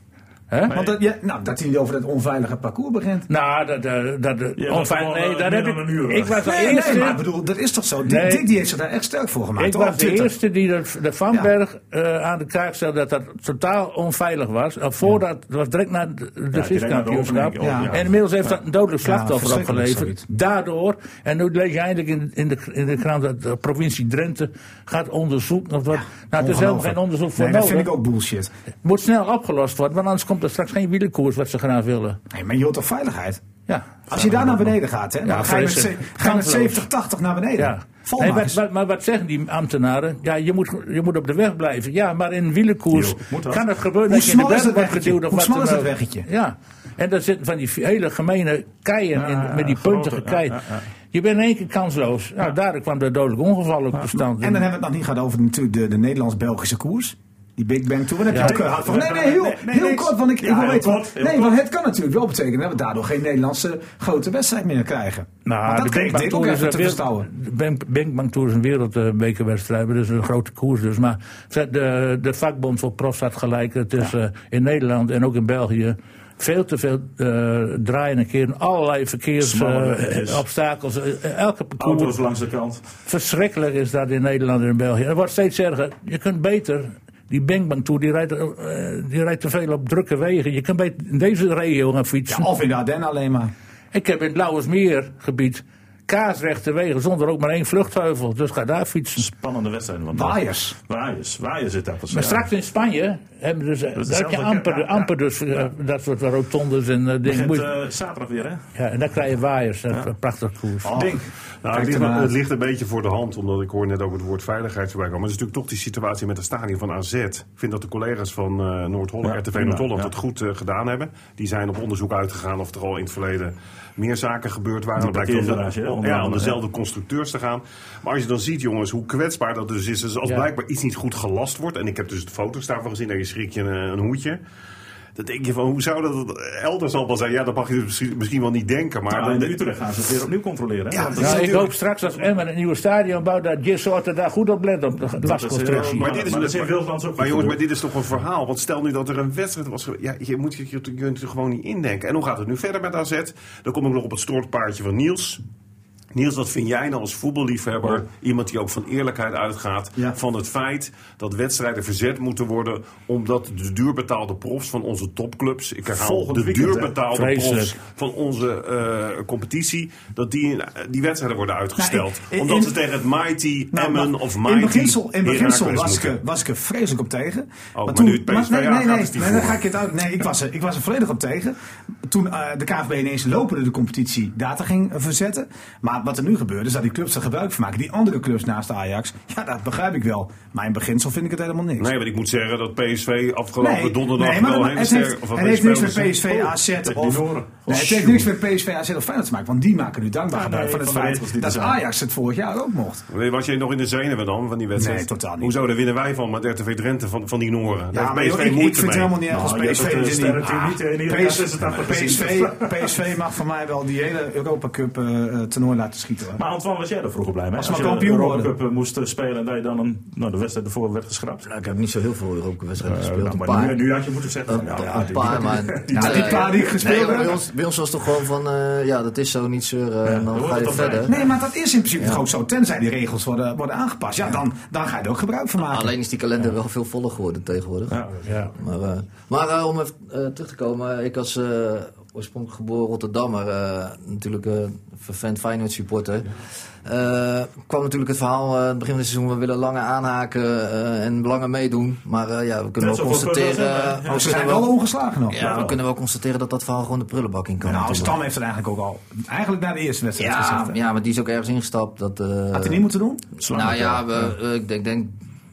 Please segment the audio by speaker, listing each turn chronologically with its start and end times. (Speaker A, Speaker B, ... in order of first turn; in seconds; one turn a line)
Speaker A: 0.7-0.9
Speaker B: 0.7-3.3
Speaker C: 3.3-7.2
Speaker A: 4.6-7.1
Speaker B: 6.4-10.3
Speaker C: 8.1-8.4
Speaker C: 9.6-27.9
Speaker A: 16.5-18.5
Speaker B: 17.6-17.9
Speaker B: 19.0-20.2
Speaker B: 25.9-28.5
Speaker C: 28.8-32.2
Speaker B: 32.3-33.5
Speaker C: 33.7-34.0
Speaker B: 34.1-38.6
Speaker C: 35.2-36.8
Speaker C: 37.6-54.6
Speaker A: 42.9-43.7
Speaker B: 44.1-46.2
Speaker A: 49.1-50.9
Speaker B: 54.3-67.3
Speaker C: 58.3-58.6
Speaker A: 58.3-61.6
Speaker C: 65.4-82.2
Speaker A: 79.4-80.4
Speaker A: 81.8-82.9
Speaker C: 83.0-92.5
Speaker B: 92.3-93.5
Speaker C: 93.9-99.3
Speaker A: 99.2-102.5
Speaker B: 100.1-100.7
Speaker C: 102.1-107.7
Speaker A: 104.0-105.1
Speaker A: 107.2-108.7
Speaker C: 108.7-111.0
Speaker B: 110.8-112.3
Speaker D: 111.6-134.4
Speaker A: 119.2-120.1
Speaker A: 125.0-126.6
Speaker D: 135.2-139.5
Speaker A: 139.1-141.7
Speaker B: 140.9-141.6
Speaker C: 141.2-146.1
Speaker A: 145.2-147.6
Speaker D: 145.7-155.4
Speaker D: 156.1-176.1
Speaker A: 165.9-166.9
Speaker C: 167.1-167.8
Speaker B: 171.8-172.8
Speaker B: 173.7-191.9
Speaker D: 177.7-179.6
Speaker D: 191.8-196.5
Speaker B: 193.6-203.0
Speaker A: 196.6-198.3
Speaker A: 200.3-201.8
Speaker D: 203.1-209.2
Speaker B: 204.7-205.5
Speaker B: 207.9-216.4
Speaker A: 209.3-212.9
Speaker A: 216.4-221.4
Speaker B: 217.6-218.5
Speaker E: 221.4-223.8
Speaker A: 222.8-226.7
Speaker E: 224.4-231.1
Speaker B: 225.9-227.4
Speaker A: 230.0-231.3
Speaker B: 231.1-235.9
Speaker E: 235.6-238.0
Speaker A: 237.9-238.2
Speaker C: 238.2-238.5
Speaker E: 238.5-246.3
Speaker E: 246.8-254.8
Speaker A: 252.8-254.6
Speaker B: 254.1-255.5
Speaker E: 255.3-258.2
Speaker A: 255.3-255.8
Speaker B: 257.6-260.8
Speaker E: 260.2-262.8
Speaker B: 262.5-263.2
Speaker E: 263.4-265.2
Speaker A: 263.4-264.3